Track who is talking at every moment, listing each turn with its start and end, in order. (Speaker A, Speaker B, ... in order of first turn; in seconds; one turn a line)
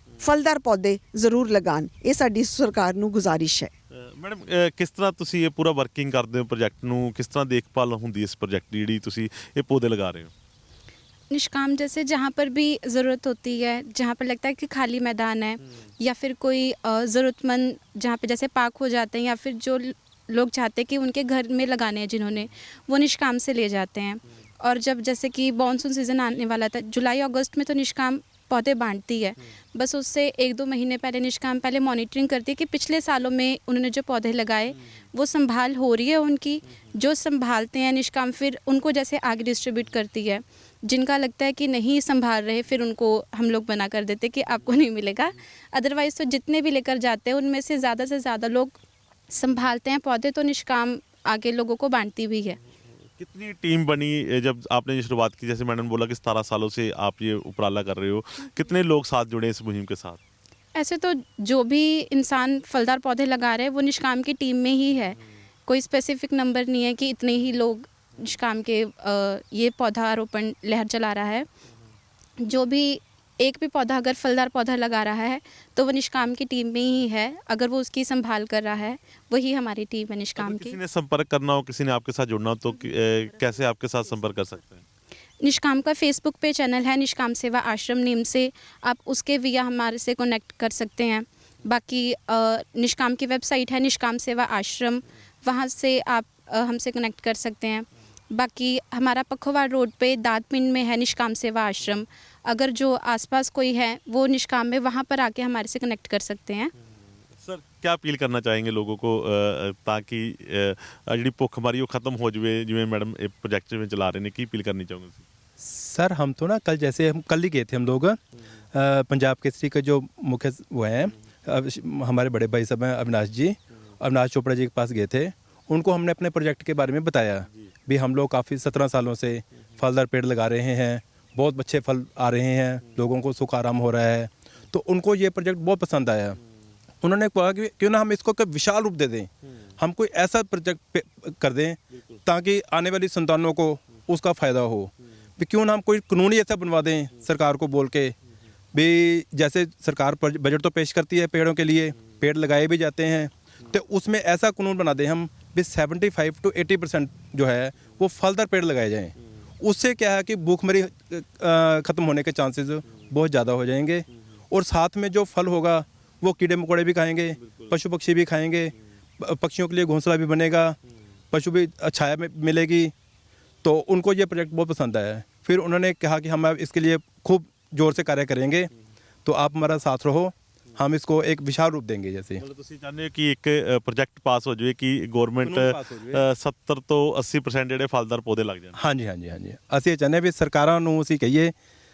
Speaker A: 0.2-3.7
Speaker B: 3.9-10.3
Speaker C: 11.3-48.8
Speaker C: 49.3-52.6
Speaker B: 53.2-60.2
Speaker C: 60.7-71.5
Speaker C: 72.4-80.8
Speaker B: 80.4-84.8
Speaker C: 85.4-106.7
Speaker B: 107.4-115.2
Speaker D: 115.6-118.2
Speaker D: 118.7-136.4
Speaker D: 137.0-148.2
Speaker D: 148.7-170.8
Speaker B: 167.4-167.7
Speaker D: 171.3-172.9
Speaker D: 173.6-178.7
Speaker D: 179.2-182.4
Speaker B: 182.4-188.8
Speaker D: 185.4-186.2
Speaker D: 188.7-191.5